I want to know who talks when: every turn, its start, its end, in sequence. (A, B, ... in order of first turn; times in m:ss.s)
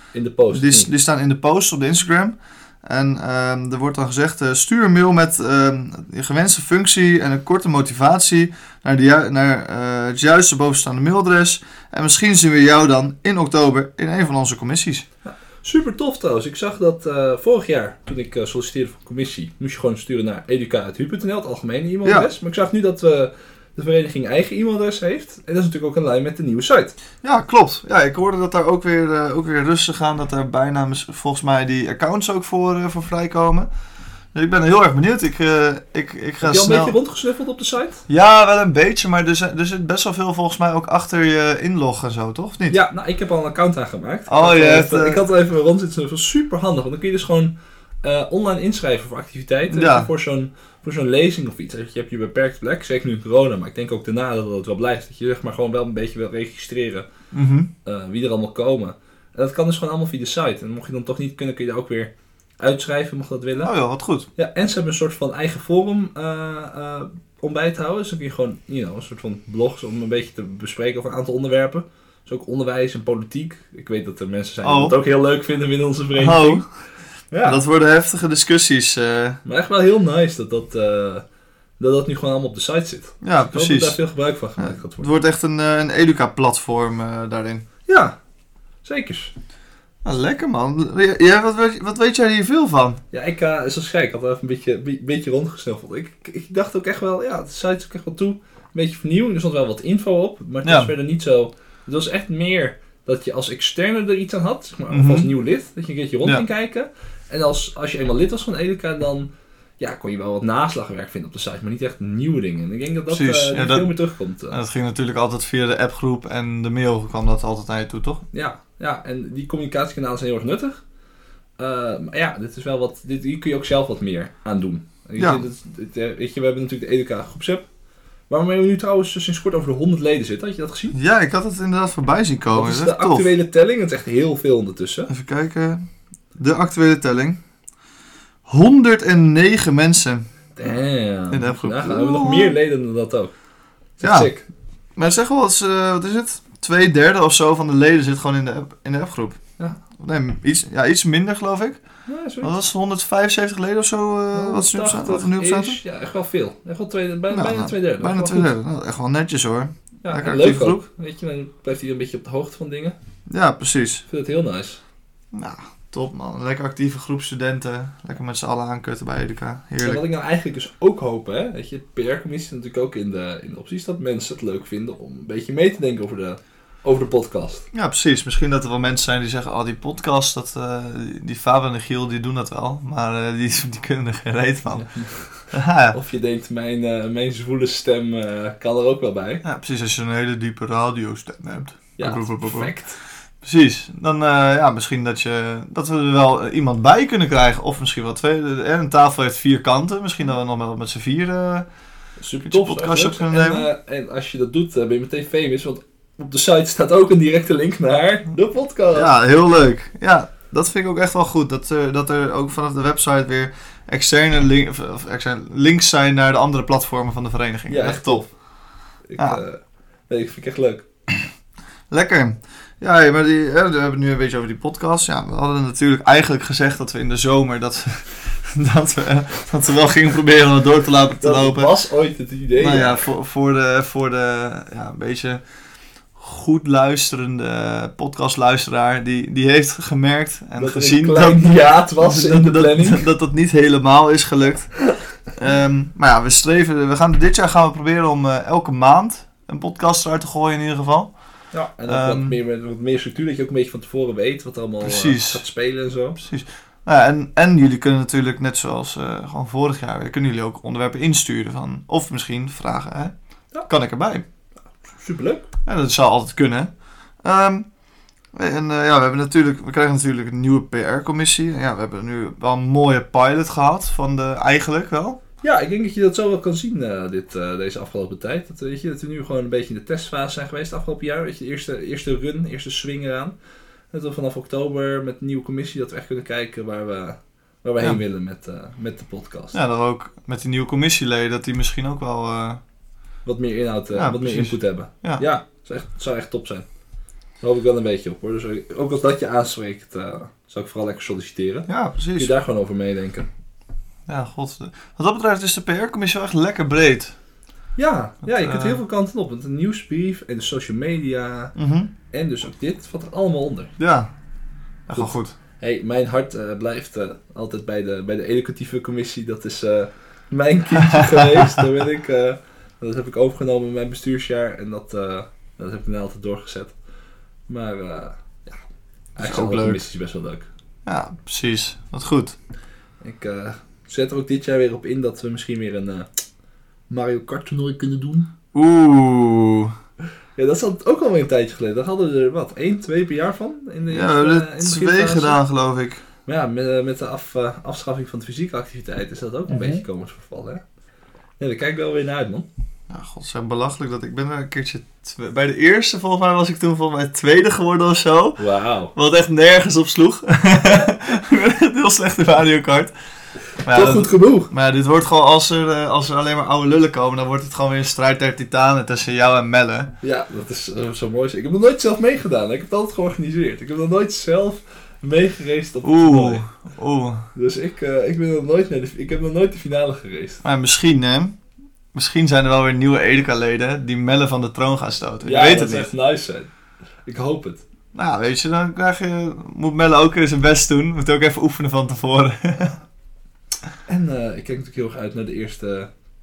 0:00.1-0:00.9 A
0:00.5-0:15.0 B
0:15.2-0:26.9 A
0:27.2-0:33.7 B
0:34.3-0:37.0 B
0:36.4-0:38.0 A
0:38.1-0:42.8 B
0:42.7-0:57.1 A
0:44.3-0:45.2 B
0:49.7-0:50.1 B
0:57.3-0:57.7 B
0:57.8-1:03.7 A
1:03.6-1:04.3 B
1:04.4-1:16.6 A
1:14.6-1:14.9 B
1:16.2-1:16.6 B
1:17.3-1:17.6 A
1:17.4-1:19.4 B
1:19.4-1:21.2 A
1:21.8-1:25.1 A
1:23.2-1:24.0 B
1:24.6-1:27.6 B
1:27.9-1:28.2 A
1:28.8-1:29.3 A
1:30.0-1:33.0 B
1:33.1-1:54.6 A
1:40.6-1:40.9 B
1:44.9-1:45.3 B
1:53.1-1:53.9 B
1:54.5-1:58.2 B
1:58.3-2:00.8 A
2:01.6-2:07.7 A
2:05.2-2:05.4 B
2:08.3-2:11.0 A
2:10.9-2:13.3 B
2:12.5-2:15.1 A
2:15.1-2:15.8 B
2:16.4-2:17.4 B
2:18.5-2:20.2 B
2:20.6-2:23.3 A
2:21.3-2:22.6 B
2:24.0-2:24.4 A
2:24.0-2:24.3 B
2:25.0-2:29.4 B
2:30.0-2:31.8 B
2:32.1-2:32.5 A
2:32.4-2:35.8 B
2:34.3-2:38.5 A
2:37.3-2:40.8 B
2:40.0-2:43.0 A
2:43.3-2:44.0 B
2:44.1-2:44.8 A
2:45.3-2:50.0 B
2:49.8-2:57.6 A
2:57.7-3:04.9 B
3:04.8-3:09.4 A
3:05.5-3:06.0 B
3:09.4-3:12.7 B
3:12.0-3:13.0 A
3:13.4-3:21.7 B
3:22.2-3:29.1 A
3:22.4-3:23.7 B
3:28.9-3:38.2 B
3:37.7-3:38.3 A
3:39.1-3:40.9 A
3:41.9-3:51.7 B
3:51.2-3:53.0 A
3:52.6-3:55.4 B
3:56.2-4:04.7 B
4:00.6-4:03.0 A
4:05.3-4:11.1 B
4:11.5-4:16.2 A
4:11.9-4:12.4 B
4:14.8-4:15.4 B
4:16.2-4:23.1 B
4:23.7-4:24.2 B
4:24.8-4:25.5 A
4:25.6-4:26.7 B
4:27.2-4:27.6 B
4:28.3-4:35.2 B
4:35.4-4:43.3 A
4:43.9-4:49.6 A
4:49.5-4:52.6 B
4:53.2-4:56.6 A
4:53.9-4:55.2 B
4:57.4-5:03.3 A
5:01.7-5:02.3 B
5:04.1-5:07.1 B
5:07.8-5:11.6 A
5:08.3-5:08.8 B
5:11.5-5:11.9 B
5:12.1-5:13.7 A
5:13.8-5:14.1 B
5:14.9-5:15.3 B
5:14.9-5:26.7 A
5:20.8-5:21.6 B
5:27.5-5:28.6 A
5:29.2-5:30.5 A
5:29.2-5:29.8 B
5:30.8-5:32.3 B
5:33.0-5:36.1 A
5:36.9-5:38.3 A
5:38.5-5:39.7 B
5:40.4-5:45.4 A
5:43.9-5:46.0 B
5:46.3-5:50.6 A
5:51.4-5:52.5 A
5:52.9-5:58.4 B
5:58.4-5:58.9 A
5:58.9-6:02.9 B
6:03.6-6:09.9 B
6:03.7-6:04.5 A
6:10.0-6:16.4 A
6:15.8-6:17.2 B
6:17.3-6:20.4 A
6:20.4-6:21.4 B
6:21.9-6:25.9 B
6:25.2-6:26.5 A
6:27.0-6:27.6 A
6:27.9-6:32.8 B
6:33.9-6:35.9 A